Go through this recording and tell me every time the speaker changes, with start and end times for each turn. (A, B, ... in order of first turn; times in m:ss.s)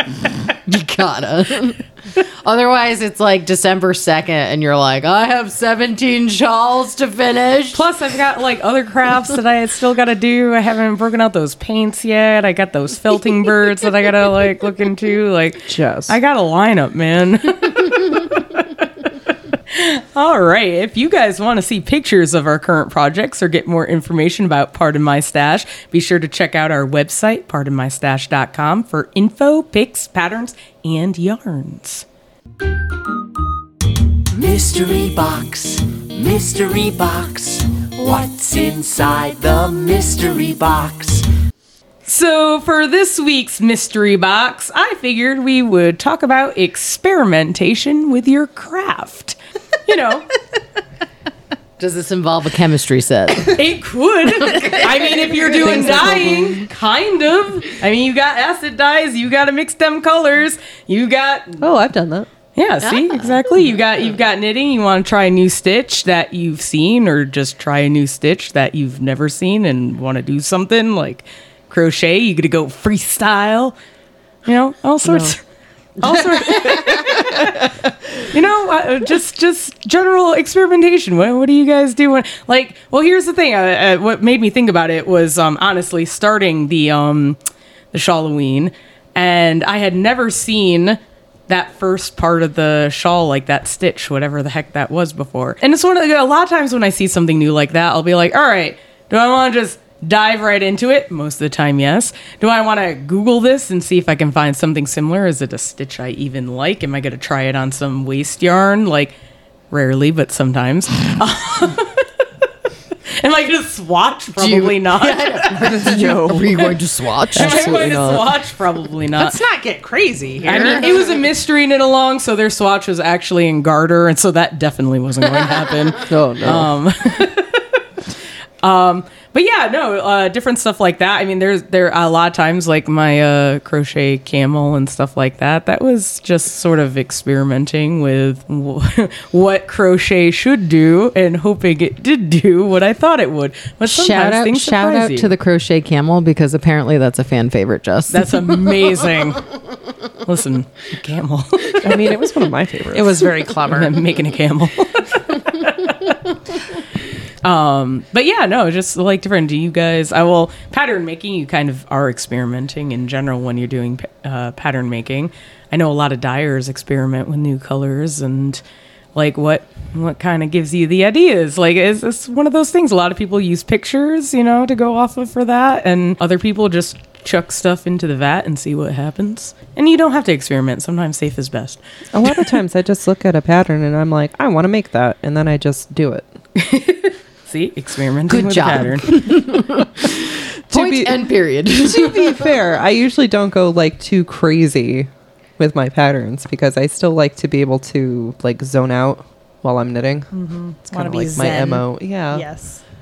0:00.5-0:07.8 A
0:07.7-0:18.9 B
0:15.6-0:16.2 C
0:19.7-0:32.0 B
0:34.3-0:41.2 D
0:42.0-0:50.3 B
0:51.8-0:53.7 A
0:53.5-1:01.6 B
0:54.2-0:56.5 A
0:55.4-0:56.6 C
1:01.6-1:02.3 C
1:02.6-1:13.7 B
1:02.8-1:03.3 A
1:14.4-1:15.4 B
1:15.0-1:15.3 C
1:16.0-1:17.6 B
1:18.2-1:27.4 B
1:27.9-1:49.1 B
1:49.7-1:52.1 B
1:53.2-1:55.8 B
1:54.3-1:58.1 A
1:55.7-1:56.5 C
1:56.4-1:56.8 B
1:57.3-1:59.4 B
1:57.4-1:58.2 C
1:59.2-2:01.2 E
2:00.4-2:07.8 B
2:06.1-2:06.7 C
2:08.6-2:25.3 B
2:23.9-2:29.0 A
2:28.1-2:29.5 B
2:30.2-2:32.1 B
2:31.8-2:33.3 C
2:32.9-2:34.0 E
2:33.6-2:36.3 B
2:37.4-2:48.6 B
2:49.1-3:01.8 B
3:02.1-3:06.3 C
3:06.6-3:09.6 B
3:08.3-3:12.6 A
3:10.7-3:22.4 C
3:20.3-3:20.8 B
3:20.9-3:22.8 E